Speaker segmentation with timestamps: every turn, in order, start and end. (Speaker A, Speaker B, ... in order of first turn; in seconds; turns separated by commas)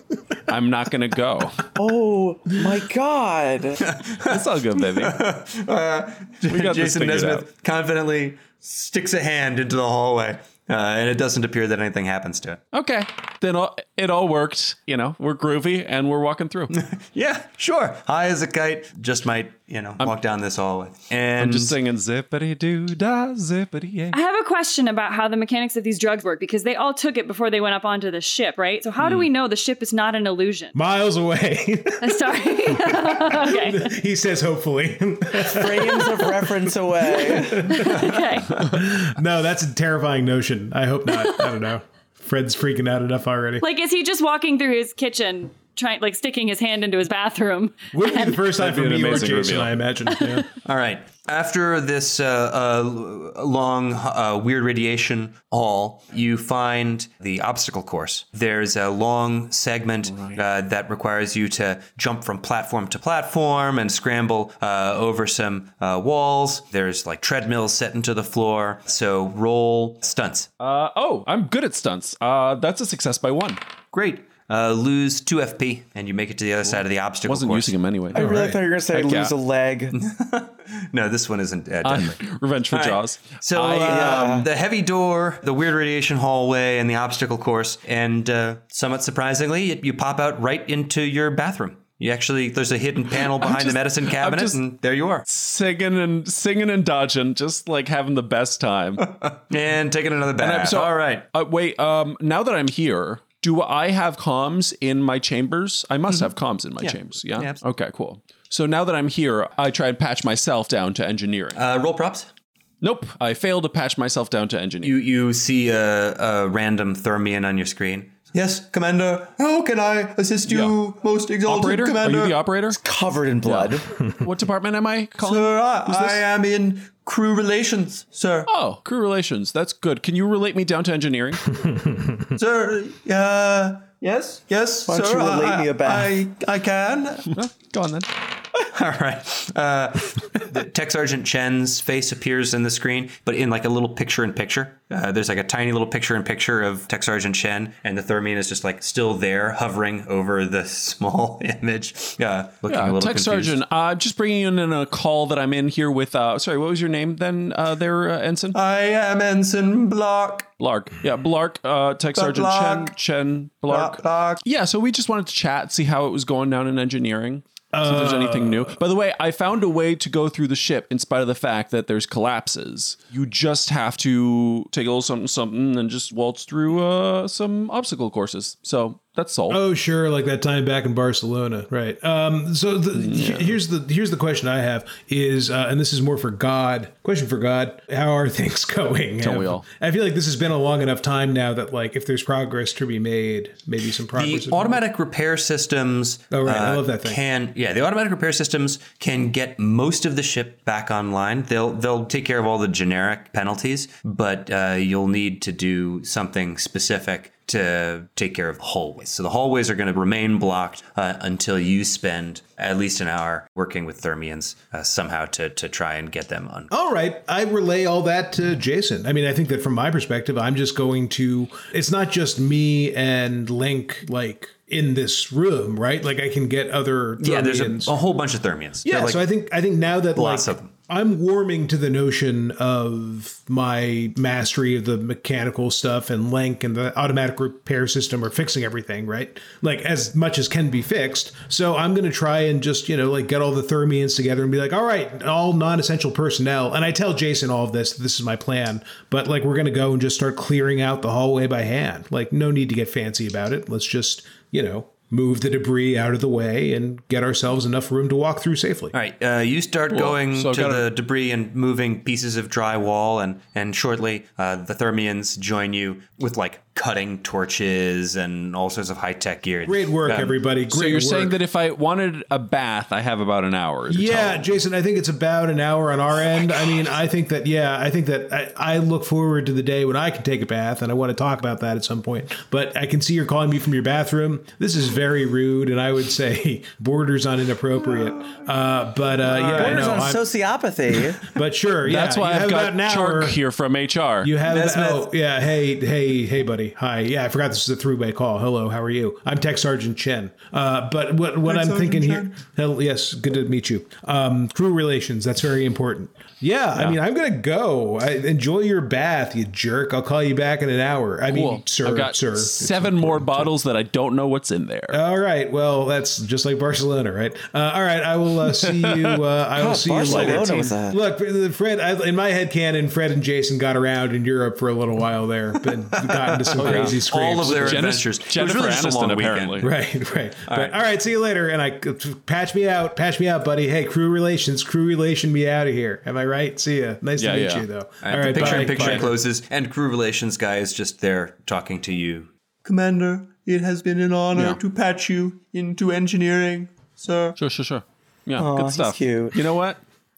Speaker A: 0.5-1.7, Speaker B: 1.7-3.8, Speaker C: 3.8-12.6, Speaker A: 4.2-5.2, Speaker A: 6.5-7.5, Speaker A: 12.7-16.7, Speaker C: 16.7-21.7, Speaker A: 21.4-24.1, Speaker D: 24.1-30.7, Speaker E: 30.7-43.6, Speaker D: 32.0-33.9, Speaker B: 35.4-37.8, Speaker D: 37.7-38.6, Speaker D: 43.6-48.4, Speaker E: 47.9-50.5, Speaker A: 48.5-49.7, Speaker C: 50.6-70.5, Speaker A: 60.1-60.4, Speaker A: 70.6-73.6, Speaker C: 73.9-77.7, Speaker A: 77.2-79.3, Speaker B: 78.1-79.9, Speaker E: 78.1-78.6, Speaker C: 79.9-95.3, Speaker A: 81.8-84.4, Speaker B: 83.8-84.5, Speaker A: 93.2-94.6, Speaker A: 95.3-99.1, Speaker C: 99.1-101.2, Speaker A: 100.4-111.6, Speaker C: 106.8-107.6, Speaker C: 111.5-112.3, Speaker A: 112.8-115.0, Speaker C: 114.8-122.3, Speaker F: 119.2-120.3, Speaker A: 120.5-120.7, Speaker F: 120.9-122.2, Speaker A: 121.4-122.8, Speaker B: 122.7-123.9, Speaker A: 123.4-126.2, Speaker C: 125.3-128.4, Speaker F: 125.3-128.5, Speaker A: 128.5-131.5, Speaker E: 131.7-132.2, Speaker F: 132.4-137.2, Speaker B: 134.9-136.2, Speaker C: 136.4-137.2, Speaker A: 137.3-138.1, Speaker C: 138.6-153.6, Speaker A: 152.7-158.6, Speaker C: 158.6-159.8, Speaker F: 158.6-160.4, Speaker A: 160.6-179.6, Speaker F: 162.2-162.9, Speaker F: 163.7-164.3, Speaker E: 167.7-168.8, Speaker E: 179.5-194.8, Speaker A: 182.9-183.6, Speaker A: 189.2-189.6, Speaker C: 194.1-216.7, Speaker E: 196.3-197.2, Speaker E: 216.7-227.9, Speaker C: 227.2-229.2, Speaker E: 228.8-258.9, Speaker C: 230.1-230.7, Speaker C: 258.9-270.4, Speaker A: 259.9-260.9, Speaker E: 269.6-271.4, Speaker A: 270.7-274.5, Speaker E: 273.9-290.3, Speaker B: 289.3-291.3, Speaker E: 291.3-293.4, Speaker A: 291.8-294.3, Speaker E: 294.2-313.5, Speaker C: 294.5-295.0, Speaker F: 301.4-302.3, Speaker A: 311.3-315.0, Speaker E: 314.9-328.0, Speaker B: 319.5-321.0, Speaker A: 320.1-320.6, Speaker C: 326.3-329.7, Speaker A: 326.6-329.7, Speaker E: 329.6-339.1, Speaker C: 330.5-330.7, Speaker A: 337.2-337.6, Speaker C: 338.0-342.3, Speaker A: 338.3-339.1, Speaker F: 342.6-347.3, Speaker A: 347.4-349.8, Speaker B: 348.4-349.4